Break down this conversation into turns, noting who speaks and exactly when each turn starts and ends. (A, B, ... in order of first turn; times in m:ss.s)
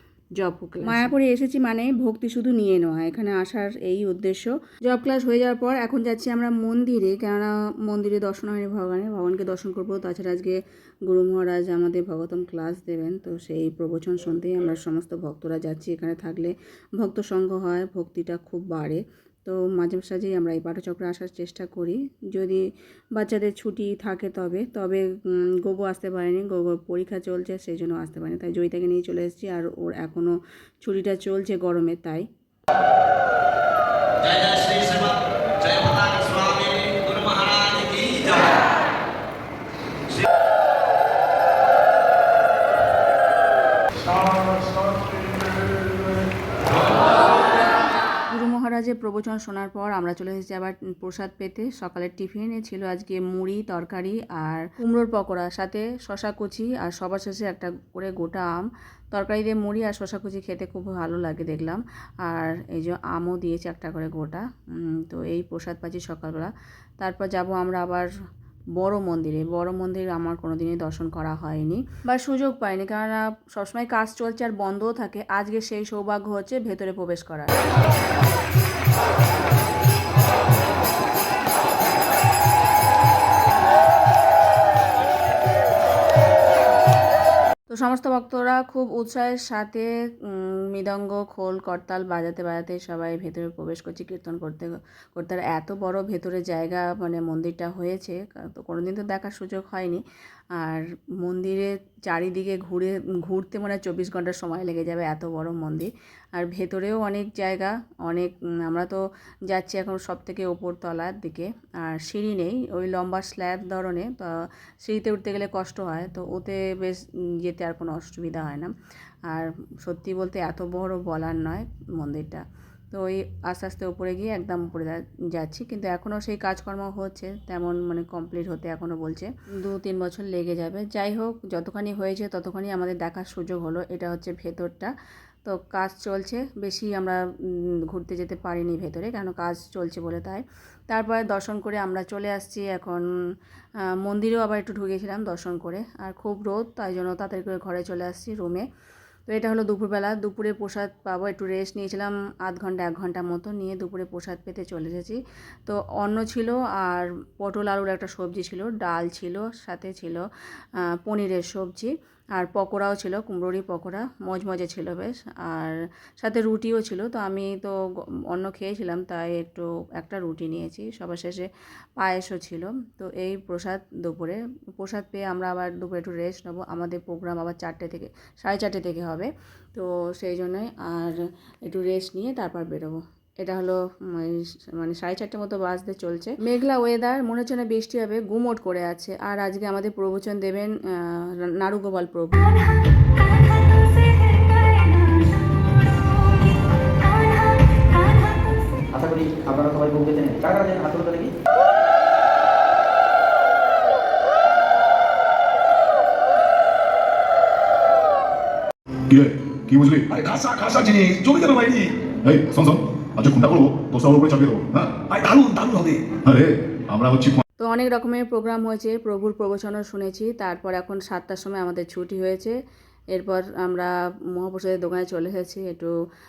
0:00.4-0:22.6 A
0:23.2-0:32.2 A
0:34.2-0:38.5 B
0:48.3-1:08.1 A
1:08.8-1:17.6 A
1:27.7-1:40.0 A
1:40.6-1:58.7 A
1:59.3-2:14.9 A
2:15.4-2:23.1 A
2:23.9-2:28.7 A
2:29.3-2:40.2 A
2:40.8-2:47.8 A
2:48.3-3:12.5 A
3:18.9-3:21.3 C
3:29.1-3:30.1 D
3:30.1-3:31.9 E
3:32.2-3:35.0 D
3:35.1-3:36.2 E
3:36.2-3:37.4 D
3:37.6-3:42.6 A
3:43.1-3:45.9 A